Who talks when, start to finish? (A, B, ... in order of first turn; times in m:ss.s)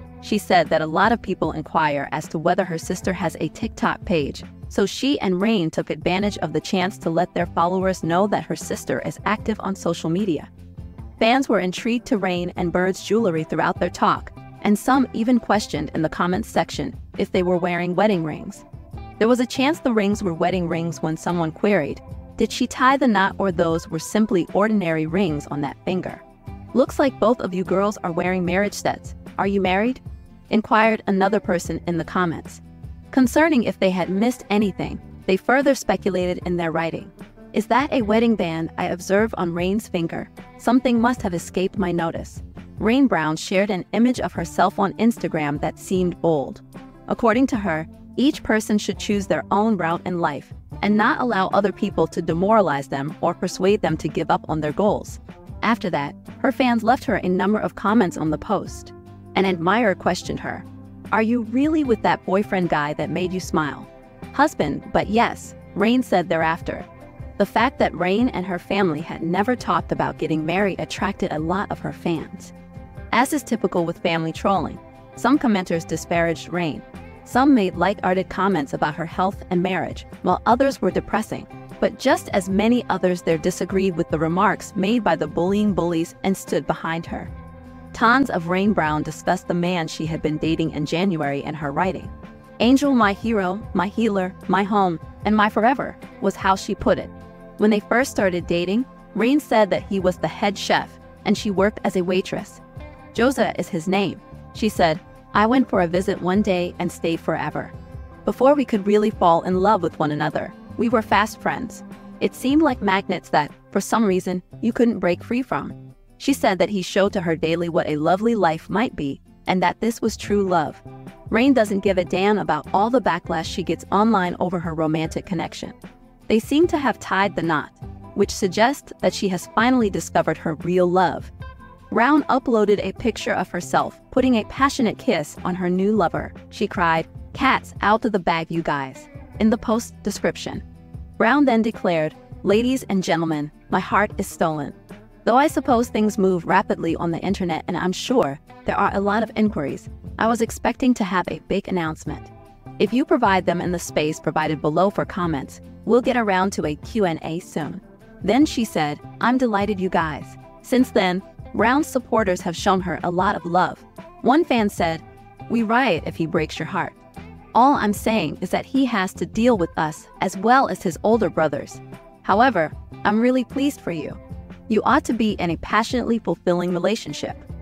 0:00.2-0:10.5 A
0:11.2-0:18.6 A
0:19.2-1:06.9 A
1:07.4-1:12.5 A
1:13.1-1:27.3 A
1:27.9-1:42.6 A
1:43.1-1:47.7 A
1:48.2-2:05.7 A
2:06.3-2:11.3 A
2:11.9-2:20.6 A
2:21.2-2:46.9 A
2:47.5-2:57.4 A